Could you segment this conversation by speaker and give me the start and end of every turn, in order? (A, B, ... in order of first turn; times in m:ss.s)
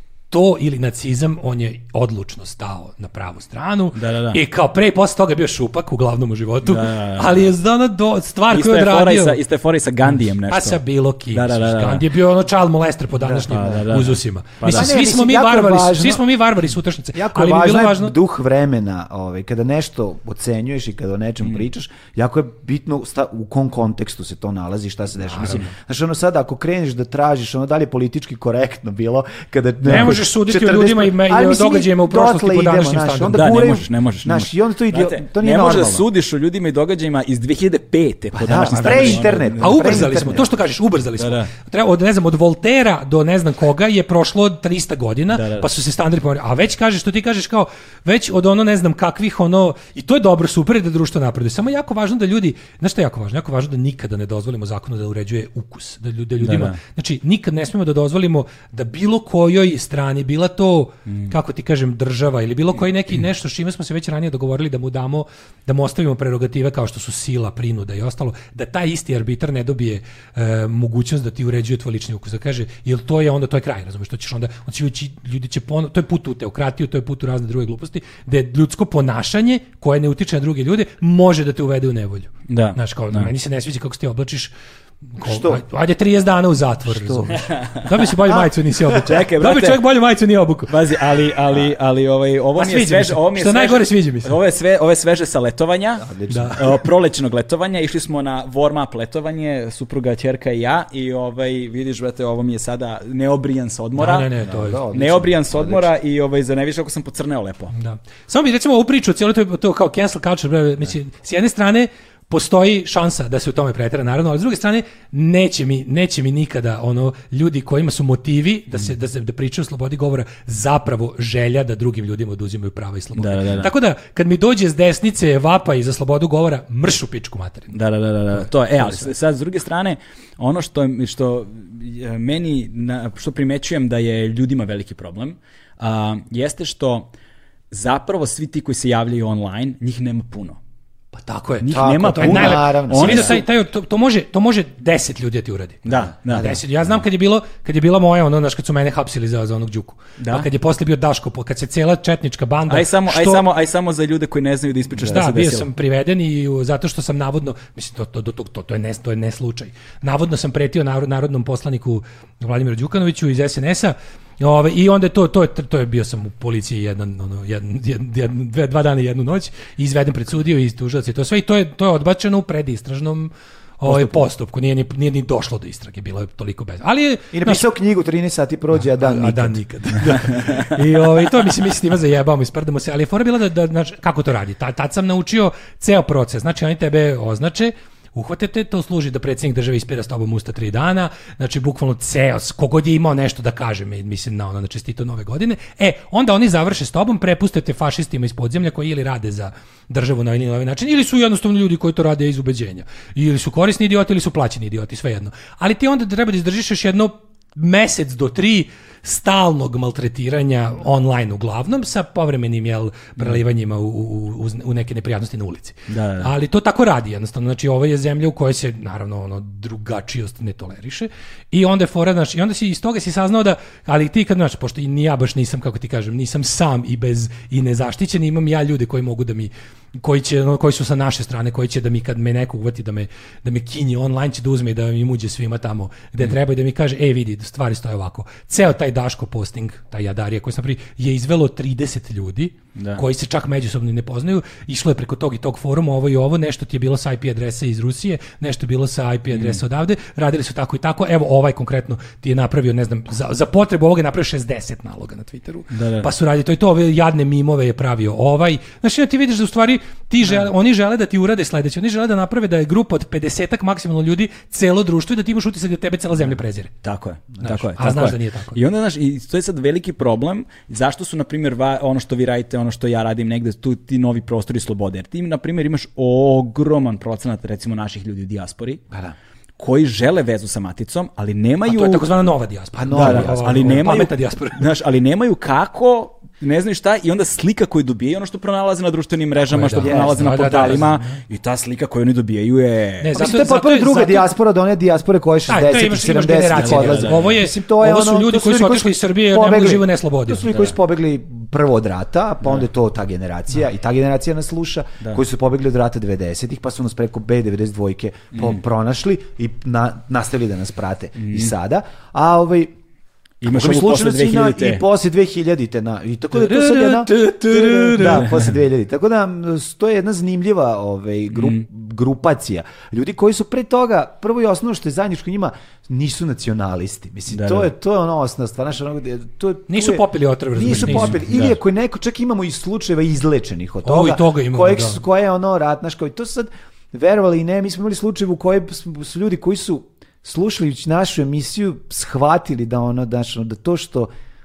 0:00.3-0:09.4 A
0:03.9-0:04.4 B
0:06.6-0:07.5 B
0:08.5-0:10.8 B
0:10.1-0:18.1 A
0:11.3-0:12.0 B
0:13.2-0:13.8 C
0:13.5-0:14.9 B
0:14.7-0:16.2 C
0:17.1-0:36.0 C
0:25.3-0:25.7 A
0:29.8-0:33.6 A
0:29.9-0:30.2 B
0:33.3-0:40.3 B
0:38.4-0:40.4 C
0:38.7-1:24.5 A
0:41.2-0:41.5 B
0:45.3-0:45.7 B
0:56.4-0:56.8 B
1:01.1-1:01.3 B
1:22.5-1:23.3 B
1:25.2-1:30.7 A
1:25.2-1:25.6 C
1:26.9-1:27.3 C
1:27.3-1:28.0 B
1:28.2-1:29.0 C
1:29.0-1:29.8 B
1:30.7-1:44.3 B
1:32.6-1:34.3 A
1:36.0-1:36.7 C
1:36.3-1:36.7 A
1:44.0-1:44.8 A
1:44.4-1:45.9 C
1:44.9-1:47.7 B
1:47.7-2:07.7 A
2:03.2-2:03.7 B
2:07.7-2:17.1 B
2:08.3-2:09.1 A
2:17.7-2:20.6 B
2:21.1-2:33.5 A
2:21.6-2:23.4 B
2:21.7-2:23.4 C
2:25.8-2:26.5 B
2:26.3-2:26.6 C
2:30.2-2:30.5 B
2:32.7-2:35.7 B
2:35.0-2:57.6 A
2:57.3-2:59.6 C
2:58.8-4:26.7 A
3:35.9-3:36.3 B
4:02.8-4:03.0 B
4:09.3-4:09.6 B
4:15.7-4:16.1 B
4:26.8-4:38.8 B
4:27.4-4:28.6 A
4:39.6-4:42.1 B
4:41.6-4:44.6 A
4:42.8-4:44.0 C
4:42.9-4:53.1 B
4:49.5-4:51.2 A
4:49.8-4:50.7 C
4:53.0-4:54.3 A
4:53.1-5:12.7 C
4:55.5-5:00.5 A
4:56.5-4:57.4 B
5:11.2-5:11.5 B
5:13.4-5:14.8 B
5:13.5-5:44.1 C
5:16.3-5:18.3 A
5:18.0-5:18.5 B
5:21.3-5:21.6 B
5:27.3-5:27.7 B
5:29.7-5:31.2 A
5:30.7-5:31.5 B
5:33.8-5:35.0 A